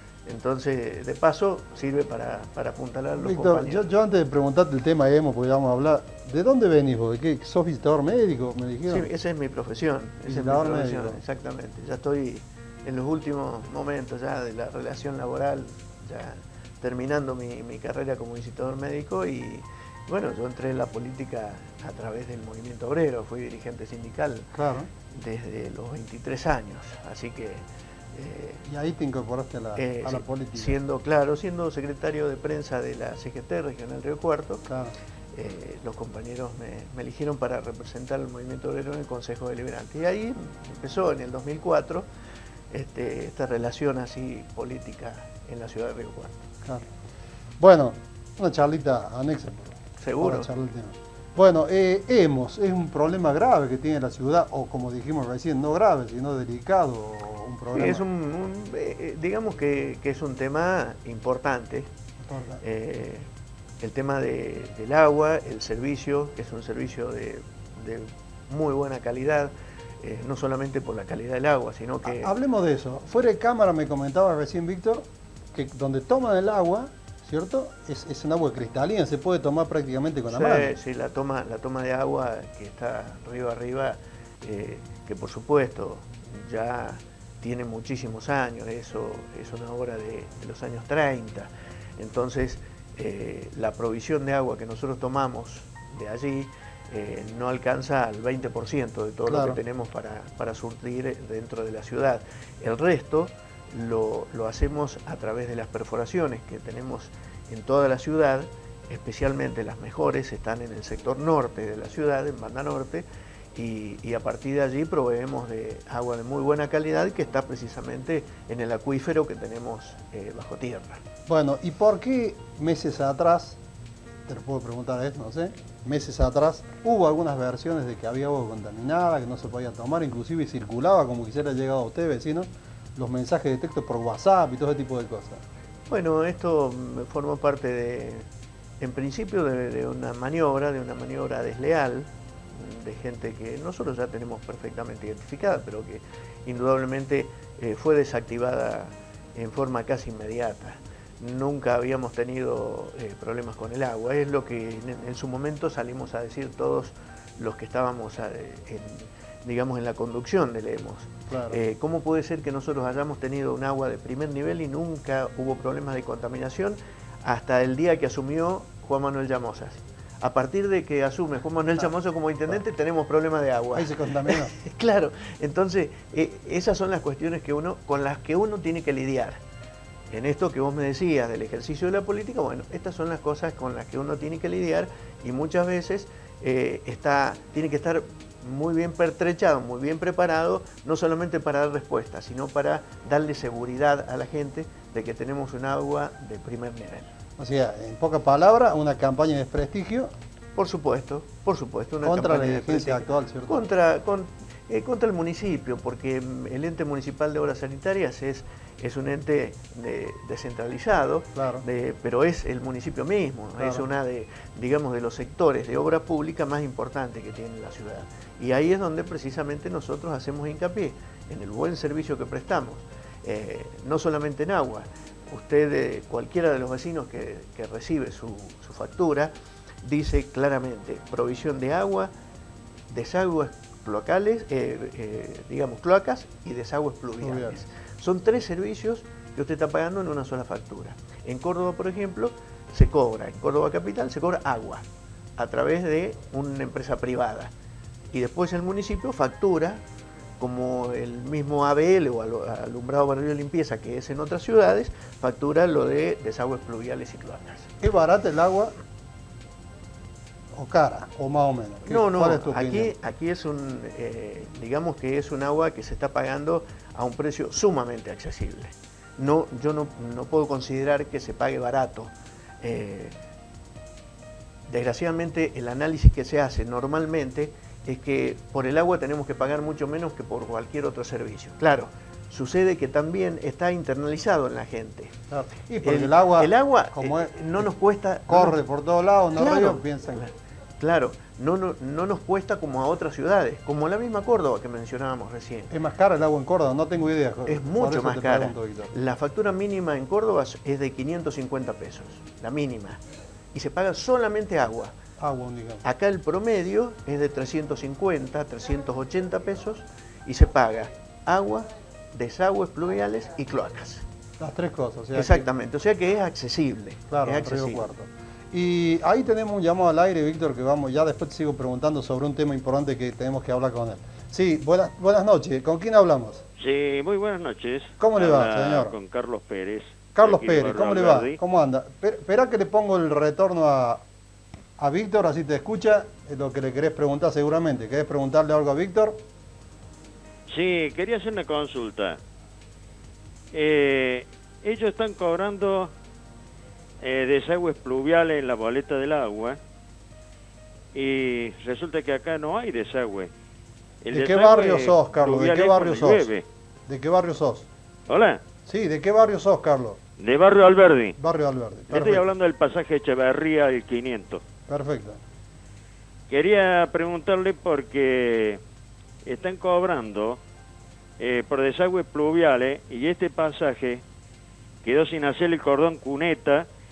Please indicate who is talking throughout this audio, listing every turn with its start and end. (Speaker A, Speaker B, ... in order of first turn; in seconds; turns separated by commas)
Speaker A: 0.3-3.8, Speaker B: 3.2-9.1, Speaker A: 8.8-24.5, Speaker B: 10.3-11.2, Speaker B: 24.5-24.9, Speaker A: 25.1-28.6, Speaker B: 28.6-30.8, Speaker A: 29.8-34.6, Speaker B: 34.7-35.0, Speaker A: 35.3-42.1, Speaker A: 42.7-46.5, Speaker B: 47.6-58.0, Speaker A: 50.0-50.5, Speaker A: 57.7-61.9, Speaker B: 62.2-62.6, Speaker A: 62.6-63.3, Speaker A: 63.8-72.3, Speaker B: 72.0-80.8, Speaker A: 80.3-121.0, Speaker B: 99.3-99.6, Speaker B: 121.3-123.6, Speaker B: 124.3-135.4, Speaker A: 135.9-138.3, Speaker A: 138.8-179.4, Speaker B: 161.3-161.6, Speaker B: 173.8-174.5, Speaker A: 180.1-197.1, Speaker B: 197.4-200.1, Speaker A: 200.6-229.3, Speaker B: 202.0-203.6, Speaker B: 211.3-211.7, Speaker B: 213.6-213.9, Speaker A: 229.8-232.1, Speaker A: 232.9-244.8, Speaker B: 237.2-237.6, Speaker A: 245.4-247.5, Speaker A: 248.1-249.8, Speaker A: 250.4-257.7, Speaker B: 257.8-258.8, Speaker B: 260.5-262.9, Speaker A: 261.9-273.2, Speaker A: 274.7-285.1, Speaker B: 285.3-287.7, Speaker A: 285.8-288.6, Speaker B: 288.3-290.2, Speaker A: 289.4-295.7, Speaker B: 295.7-298.9, Speaker A: 297.5-303.0, Speaker A: 303.5-305.0, Speaker B: 305.2-305.8, Speaker A: 305.8-314.1, Speaker B: 314.4-315.5, Speaker A: 315.1-317.9, Speaker B: 317.1-326.4, Speaker C: 326.6-331.4, Speaker B: 328.0-329.0, Speaker B: 330.1-334.0, Speaker B: 334.8-339.2, Speaker C: 340.5-342.2, Speaker C: 343.5-345.9, Speaker C: 347.0-349.6, Speaker C: 350.9-353.3, Speaker C: 354.0-356.4, Speaker B: 354.1-356.3, Speaker B: 356.9-357.7, Speaker C: 358.1-358.4, Speaker B: 358.7-360.0, Speaker C: 360.2-361.1, Speaker B: 361.2-362.3, Speaker C: 361.9-364.4, Speaker B: 364.7-365.2, Speaker C: 366.3-368.6, Speaker C: 369.3-370.4, Speaker C: 371.2-374.0, Speaker C: 374.8-376.6